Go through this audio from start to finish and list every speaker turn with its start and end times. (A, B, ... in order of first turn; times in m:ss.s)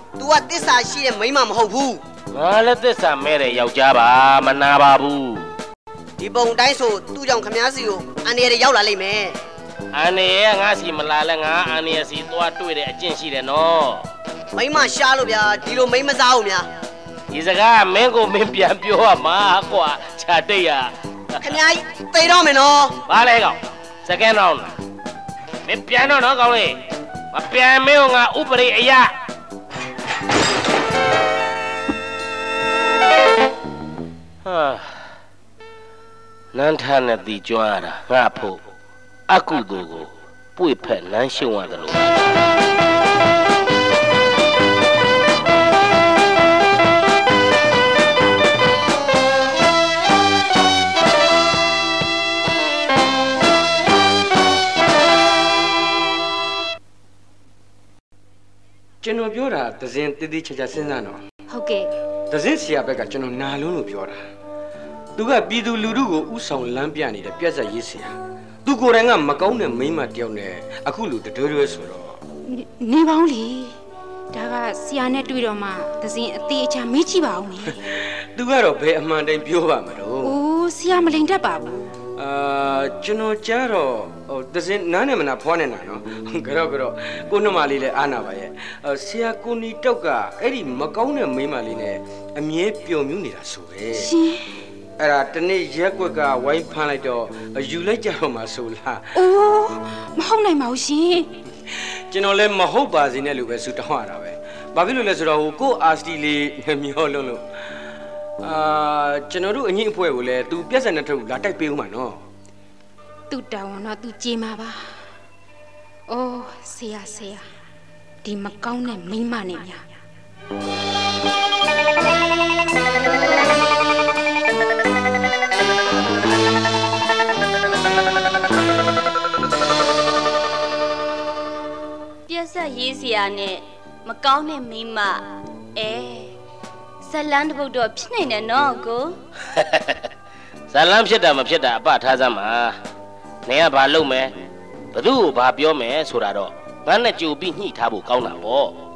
0:00.2-0:02.0 A
0:02.3-0:05.5 B
0:06.2-0:09.4 A
0:09.9-0:14.0 B
0:14.5-0:16.7 A
0:17.3-0:20.9 B
0:21.4-0:23.0 A
0:23.1-0:24.7 B
0:25.6-0:26.8 B
0:27.3-0:29.1 B
0:34.4-0:35.1 B
0:36.5-0:38.6 B
0:39.3-0:42.4 B
0:59.0-1:01.2 C
1:01.5-1:01.9 D
1:02.3-1:04.2 C
1:05.2-1:12.2 C
1:12.5-1:13.8 D
1:14.3-1:17.8 D
1:17.7-1:20.4 C
1:20.2-1:21.8 D
1:22.2-1:34.1 C
1:33.9-1:34.6 D
1:35.0-1:39.2 C
1:39.1-1:41.3 D
1:41.7-1:47.4 C
1:48.4-1:52.2 C
1:53.3-1:54.9 D
1:56.1-1:57.5 D
1:58.2-1:59.8 D
2:12.3-2:16.3 E
2:17.0-2:19.2 E
2:19.5-2:20.1 B
2:20.7-2:22.8 B
2:23.5-2:24.3 B
2:24.9-2:28.7 B